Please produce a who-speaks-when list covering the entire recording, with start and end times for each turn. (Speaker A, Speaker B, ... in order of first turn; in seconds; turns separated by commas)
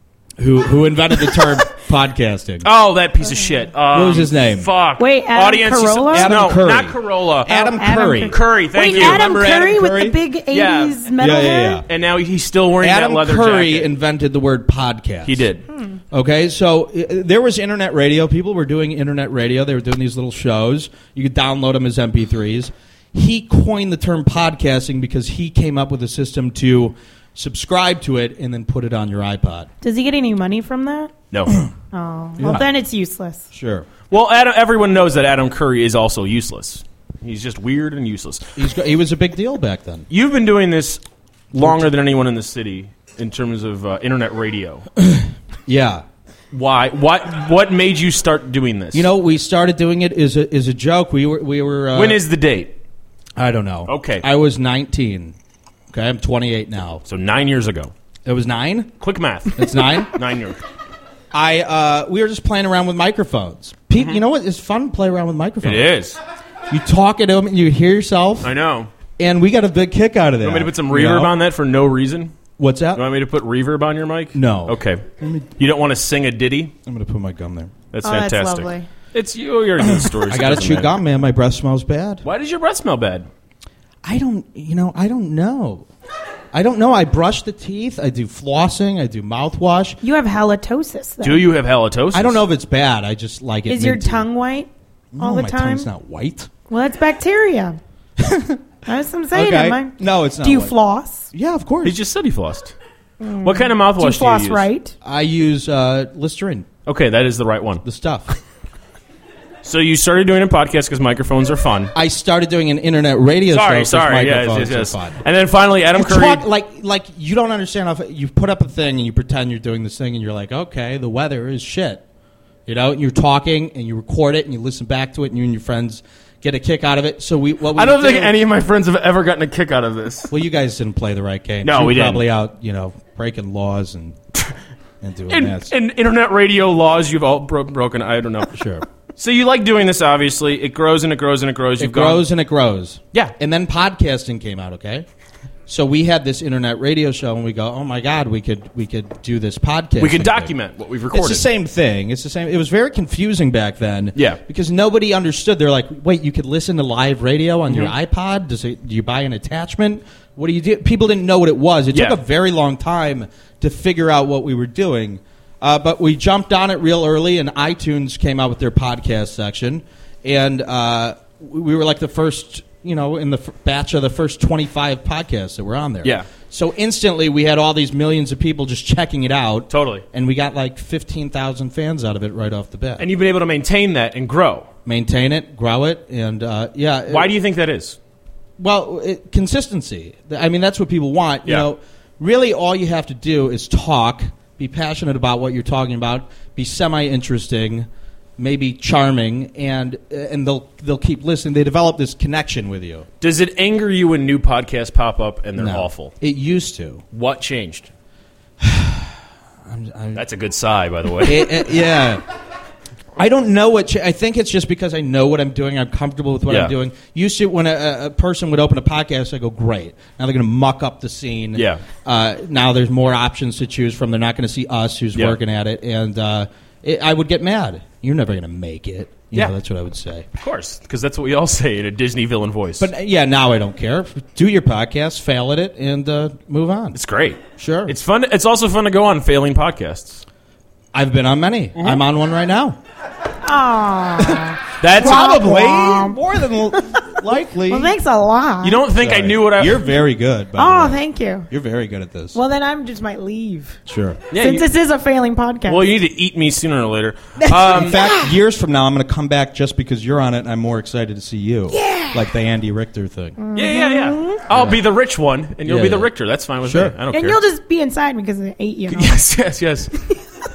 Speaker A: 0.4-2.7, Speaker B: 2.7-7.4, Speaker C: 3.3-3.5, Speaker A: 3.9-4.7, Speaker C: 5.0-6.4, Speaker A: 6.1-10.2, Speaker C: 7.5-11.8, Speaker B: 8.3-9.2, Speaker B: 10.5-10.9, Speaker A: 11.2-11.9, Speaker B: 11.9-13.8, Speaker A: 12.8-15.5, Speaker B: 15.3-15.6, Speaker C: 15.7-16.0, Speaker A: 16.1-29.7, Speaker C: 29.8-31.1, Speaker C: 31.9-33.5, Speaker A: 32.4-32.7, Speaker A: 33.5-33.9, Speaker B: 34.1-38.4, Speaker A: 38.5-40.0, Speaker B: 40.1-41.0, Speaker A: 41.5-41.8, Speaker B: 41.5-44.8, Speaker A: 45.0-46.0, Speaker B: 46.5-49.0, Speaker A: 48.9-52.2, Speaker B: 52.0-52.7, Speaker A: 53.4-55.4, Speaker B: 53.9-54.2, Speaker A: 55.9-57.0, Speaker B: 57.1-57.9, Speaker A: 58.2-58.9, Speaker B: 59.0-59.6, Speaker A: 59.5-60.2, Speaker B: 60.2-60.6, Speaker A: 61.3-65.9, Speaker B: 65.6-66.2, Speaker A: 66.7-68.5, Speaker B: 68.4-68.9, Speaker A: 69.2-71.3, Speaker B: 70.4-72.3, Speaker A: 72.6-73.0, Speaker B: 73.0-75.0, Speaker A: 74.3-75.5, Speaker B: 75.6-76.7, Speaker A: 76.8-77.7, Speaker B: 77.9-80.9, Speaker C: 78.0-78.9, Speaker A: 80.0-82.2, Speaker B: 82.2-83.3, Speaker A: 84.0-85.9, Speaker A: 86.5-90.0, Speaker C: 90.0-91.5, Speaker B: 91.2-92.4, Speaker A: 92.1-94.3, Speaker C: 93.7-95.9, Speaker A: 95.1-96.5, Speaker C: 96.7-97.8, Speaker A: 98.2-98.6, Speaker C: 98.8-101.3, Speaker A: 99.3-100.8, Speaker A: 101.3-102.0, Speaker B: 101.8-102.7, Speaker C: 103.2-105.0, Speaker B: 103.5-104.6, Speaker A: 105.0-106.7, Speaker B: 106.8-107.8, Speaker A: 107.8-108.3, Speaker B: 109.6-111.9, Speaker A: 111.9-115.2, Speaker B: 113.5-116.4, Speaker A: 115.9-122.0, Speaker A: 122.7-128.4, Speaker B: 127.8-130.3, Speaker A: 130.3-134.2, Speaker B: 131.6-132.2, Speaker A: 135.0-135.7, Speaker B: 135.3-138.5, Speaker A: 138.5-138.8, Speaker B: 139.2-142.2, Speaker A: 141.8-145.1, Speaker A: 145.7-150.5, Speaker B: 150.0-151.5, Speaker A: 151.1-183.1, Speaker B: 161.9-162.2, Speaker B: 179.7-180.0, Speaker B: 183.0-184.7, Speaker A: 184.8-187.3, Speaker B: 187.1-188.0, Speaker A: 188.6-203.1, Speaker B: 203.2-206.1, Speaker A: 205.6-207.0, Speaker B: 207.1-207.9, Speaker A: 208.6-209.1, Speaker A: 209.7-210.2, Speaker B: 210.2-211.7, Speaker A: 211.2-212.2, Speaker A: 213.2-230.3, Speaker B: 230.4-232.9, Speaker A: 232.8-237.0, Speaker B: 236.9-240.2, Speaker A: 237.6-238.0, Speaker A: 240.9-242.8, Speaker C: 243.4-247.2, Speaker A: 244.2-247.9, Speaker B: 244.8-245.1, Speaker C: 247.7-248.8, Speaker B: 248.6-249.8, Speaker A: 248.9-252.4, Speaker C: 250.6-251.5, Speaker C: 252.3-253.8, Speaker A: 253.9-254.2, Speaker B: 254.3-254.6, Speaker C: 254.3-255.9, Speaker B: 255.7-257.9, Speaker C: 257.4-258.3, Speaker A: 257.6-263.4, Speaker C: 261.7-262.2, Speaker C: 263.4-264.4, Speaker B: 263.5-267.4, Speaker A: 264.5-264.8, Speaker A: 265.6-266.1, Speaker A: 266.6-267.0, Speaker C: 267.1-269.2, Speaker B: 268.9-269.9